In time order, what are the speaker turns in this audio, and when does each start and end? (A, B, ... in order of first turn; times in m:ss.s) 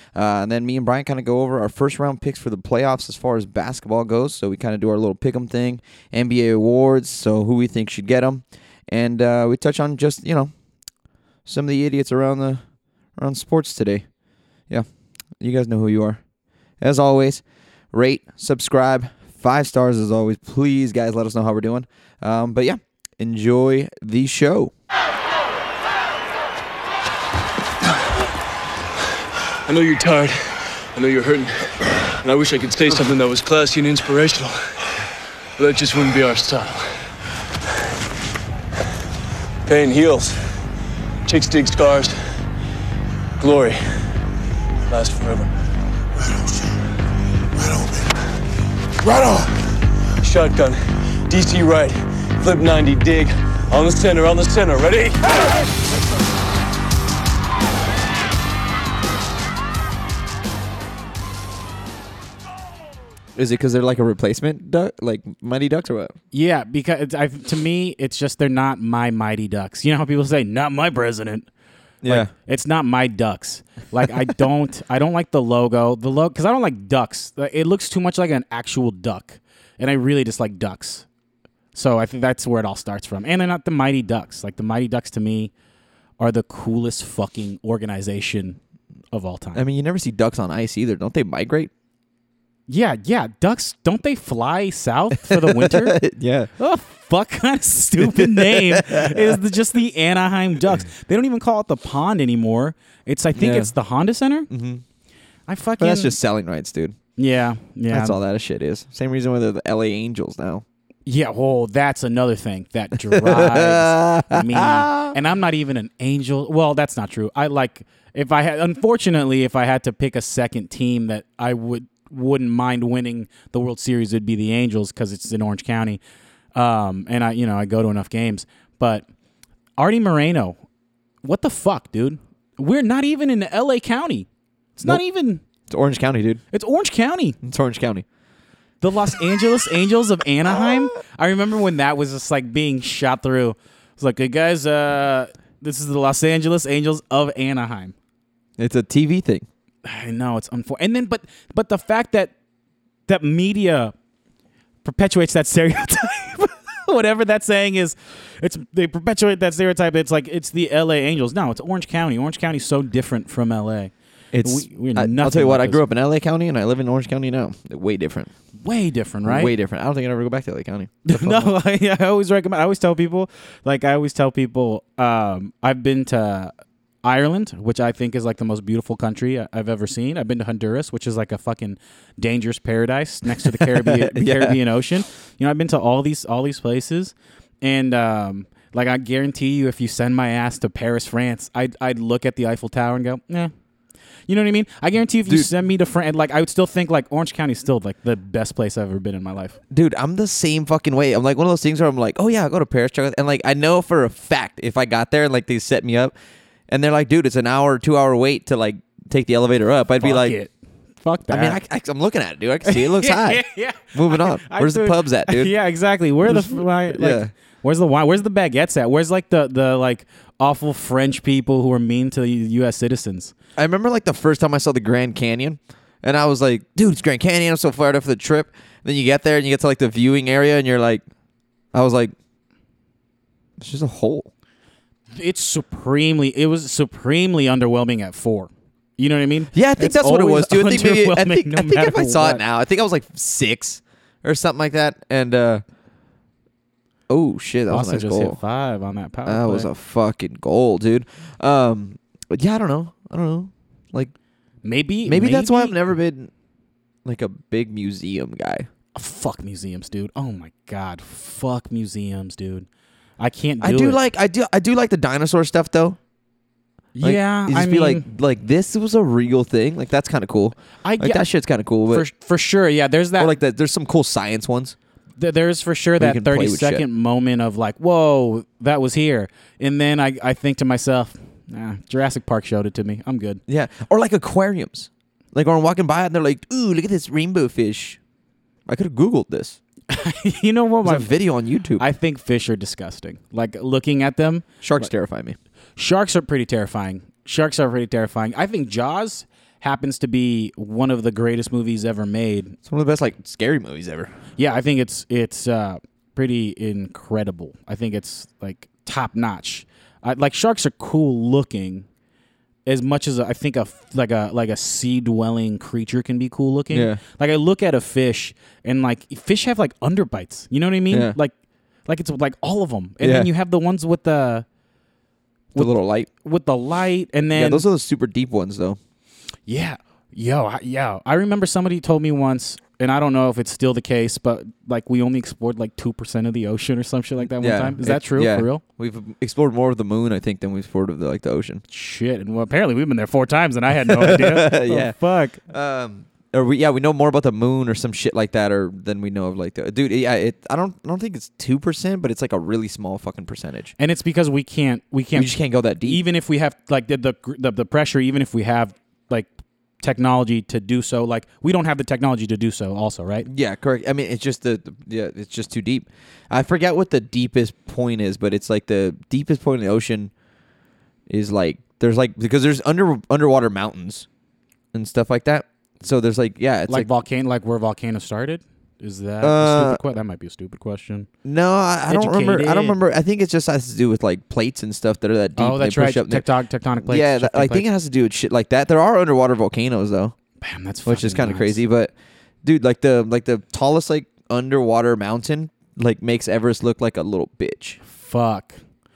0:00.2-0:10.5 A
0:11.4-0:14.1 A
0:15.4-0:16.2 A
0:16.8-0:24.7 A
0:29.7-0:31.7 B
0:32.2-0:34.8 B
0:35.6-0:37.1 B
0:39.6-0:40.5 B
0:41.3-0:42.2 B
0:43.4-0:43.8 B
0:44.9-0:45.5 B
0:46.2-0:46.6 B
0:47.6-0:48.2 B
0:49.0-0:55.5 B
1:03.4-1:06.2 A
1:06.3-1:11.5 C
1:12.0-1:12.3 A
1:12.0-1:21.1 C
1:21.7-1:25.5 C
1:26.2-1:28.6 C
1:29.1-1:29.6 C
1:29.5-1:31.7 A
1:32.7-1:36.0 C
1:35.2-1:36.5 A
1:36.6-1:44.5 C
1:38.0-1:39.4 A
1:43.4-1:43.7 A
1:44.5-1:44.8 A
1:45.5-1:46.1 C
1:45.8-1:47.0 A
1:47.2-1:48.2 C
1:47.9-1:50.6 A
1:51.1-2:06.0 C
1:53.1-1:55.2 A
2:06.5-2:09.1 C
2:09.8-2:10.6 C
2:11.2-2:15.4 C
2:15.7-2:16.4 A
2:16.5-2:17.4 C
2:17.4-2:18.0 A
2:18.8-2:28.0 C
2:28.6-2:29.5 A
2:29.8-2:32.3 C
2:33.1-2:33.9 C
2:34.8-2:45.8 C
2:44.3-2:48.3 A
2:48.6-2:49.5 C
2:49.2-2:51.5 A
2:51.1-2:56.5 C
2:57.0-3:13.5 C
3:03.5-3:04.6 A
3:14.3-3:19.6 C
3:15.3-3:15.5 A
3:19.7-3:26.2 A
3:26.7-3:30.4 A
3:30.0-3:31.6 C
3:31.3-3:35.5 A
3:32.7-3:43.3 C
3:36.2-3:37.3 A
3:43.6-3:51.0 A
3:51.7-3:52.1 A
3:53.6-3:54.3 A
3:55.1-4:02.4 C
3:59.5-4:05.6 A
4:07.1-4:08.4 A
4:07.7-4:09.7 C
4:09.3-4:14.1 A
4:14.6-4:15.8 C
4:15.1-4:16.3 A
4:17.0-4:18.7 A
4:19.0-4:22.7 C
4:23.2-4:24.0 C
4:23.6-4:26.0 A
4:27.0-4:28.1 C
4:27.0-4:32.1 A
4:30.8-4:31.3 C
4:31.9-4:33.4 C
4:33.2-4:34.8 A
4:35.2-4:43.4 C
4:36.0-4:36.8 A
4:43.5-4:48.0 A
4:48.7-4:49.6 A
4:49.9-4:51.1 C
4:50.8-4:51.8 A
4:51.8-4:54.9 C
4:54.6-4:55.4 A
4:55.8-5:02.6 C
5:02.7-5:04.1 A
5:04.4-5:11.9 C
5:12.7-5:21.3 C
5:16.7-5:17.0 A
5:20.9-5:21.2 A
5:21.9-5:24.5 C
5:23.0-5:23.3 A
5:25.5-5:27.6 C
5:25.6-5:26.1 A
5:27.3-5:28.8 A
5:29.5-5:38.6 C
5:37.3-5:41.6 A
5:41.7-5:45.4 C
5:43.9-5:45.0 A
5:45.5-5:53.7 A
5:53.8-5:59.3 C
5:55.1-5:56.0 A
5:59.8-6:03.3 C
6:03.3-6:10.1 A
6:11.1-6:14.1 A
6:14.7-6:16.9 A
6:16.7-6:21.1 C
6:19.2-6:19.8 A
6:21.2-6:26.2 A
6:21.9-6:22.8 C
6:25.4-6:27.7 C
6:26.8-6:30.2 A
6:30.4-6:31.6 C
6:30.8-6:31.9 A
6:32.4-6:37.8 A
6:37.8-6:38.6 C